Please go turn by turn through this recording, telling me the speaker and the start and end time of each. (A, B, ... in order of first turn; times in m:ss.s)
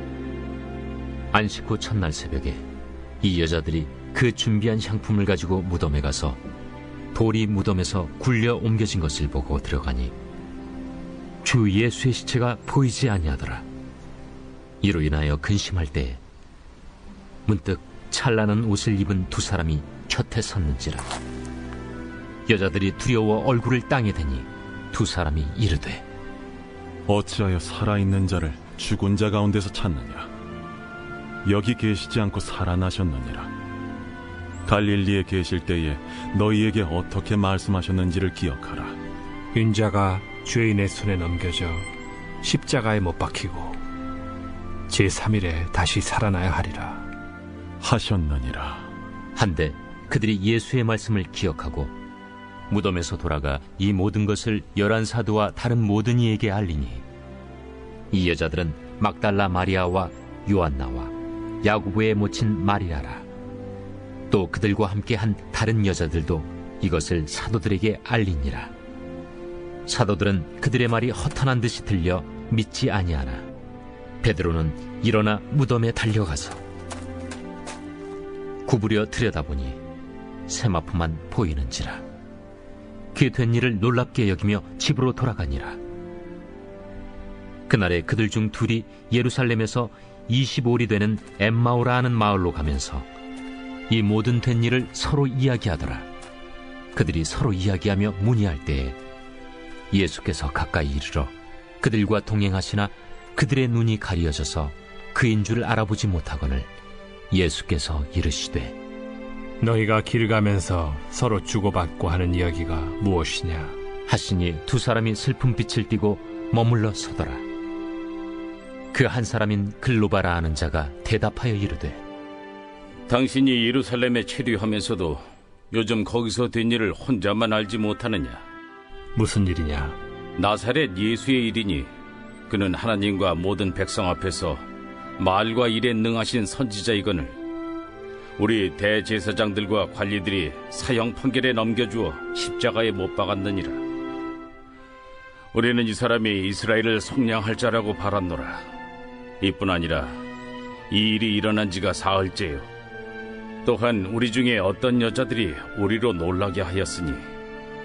0:01.3-0:02.6 A
0:03.2-0:06.4 A
0:07.1-0:10.1 A
0:11.4-0:13.6 A
0:14.8-0:16.2 A
0:17.5-0:21.0 A
0:22.5-0:26.0 A
0:27.1-0:30.3 B
0:31.4-0:33.5 B
0:34.6-0:39.0 B
0:39.5-0:41.9 C
0:42.4-0:43.8 C
0:44.9-0:47.1 C
0:47.8-0:48.9 B
0:49.4-0:51.9 A
0:52.7-0:57.0 A
0:58.1-1:03.2 A
1:04.3-1:08.7 A
1:09.8-1:13.4 A
1:14.2-1:16.6 A
1:18.6-1:19.8 A
1:20.5-1:22.0 A
1:23.1-1:25.8 A
1:27.7-1:33.1 A
1:33.9-1:36.0 A
1:36.9-1:39.0 A
1:39.9-1:46.7 A
1:47.3-1:48.8 A
1:49.6-1:53.7 C
1:54.1-1:57.4 A
1:58.9-2:02.0 A
2:03.1-2:08.4 D
2:09.1-2:10.0 C
2:10.4-2:11.9 D
2:12.5-2:14.6 D
2:15.2-2:17.4 D
2:18.4-2:23.8 D
2:25.5-2:28.6 D
2:29.4-2:30.2 D
2:30.9-2:32.7 D
2:33.6-2:37.2 D